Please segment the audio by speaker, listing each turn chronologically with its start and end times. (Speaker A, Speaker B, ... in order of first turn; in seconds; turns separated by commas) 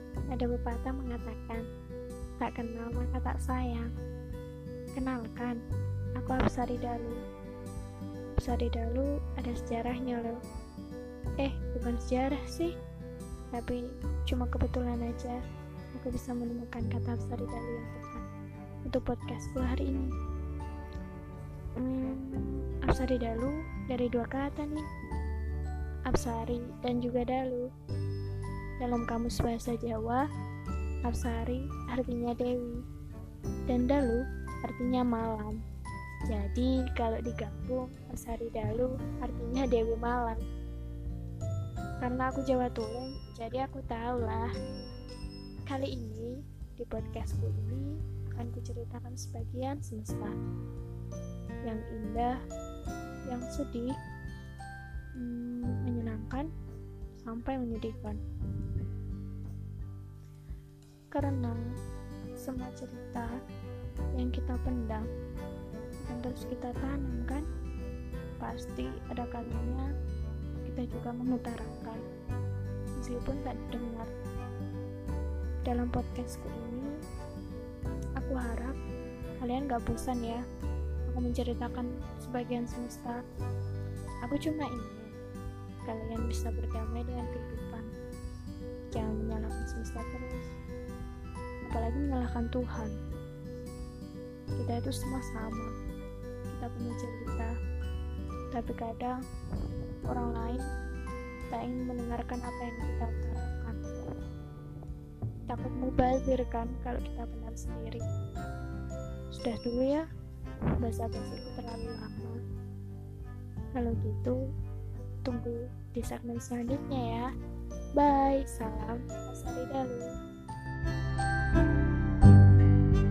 Speaker A: 0.3-1.7, Speaker A: 2.4-3.9, Speaker A: 4.9-5.6, Speaker A: 6.2-7.2, Speaker A: 8.4-10.4, Speaker A: 11.4-12.8, Speaker A: 13.5-15.4, Speaker A: 15.9-18.2, Speaker A: 18.9-20.1, Speaker A: 21.8-24.9, Speaker A: 26.1-27.7, Speaker A: 28.8-30.2, Speaker A: 31.1-32.8, Speaker A: 33.7-35.6, Speaker A: 36.3-40.4, Speaker A: 42.0-44.5, Speaker A: 45.7-50.4, Speaker A: 51.6-52.3, Speaker A: 53.3-53.9, Speaker A: 55.2-56.5, Speaker A: 57.2-58.2, Speaker A: 61.1-61.6, Speaker A: 62.4-63.3, Speaker A: 64.1-65.1, Speaker A: 66.0-67.5, Speaker A: 68.4-69.8, Speaker A: 70.6-72.0, Speaker A: 73.0-74.1, Speaker A: 75.6-76.9, Speaker A: 78.2-78.8, Speaker A: 79.4-80.4, Speaker A: 81.1-83.2, Speaker A: 84.2-85.1, Speaker A: 85.9-87.9, Speaker A: 88.9-90.5, Speaker A: 91.7-93.0, Speaker A: 94.6-95.7, Speaker A: 96.5-97.5, Speaker A: 98.5-99.2, Speaker A: 100.1-100.7, Speaker A: 101.5-103.9, Speaker A: 105.5-108.1, Speaker A: 109.3-110.0, Speaker A: 110.8-112.4, Speaker A: 113.8-114.4, Speaker A: 115.2-117.3, Speaker A: 118.0-120.2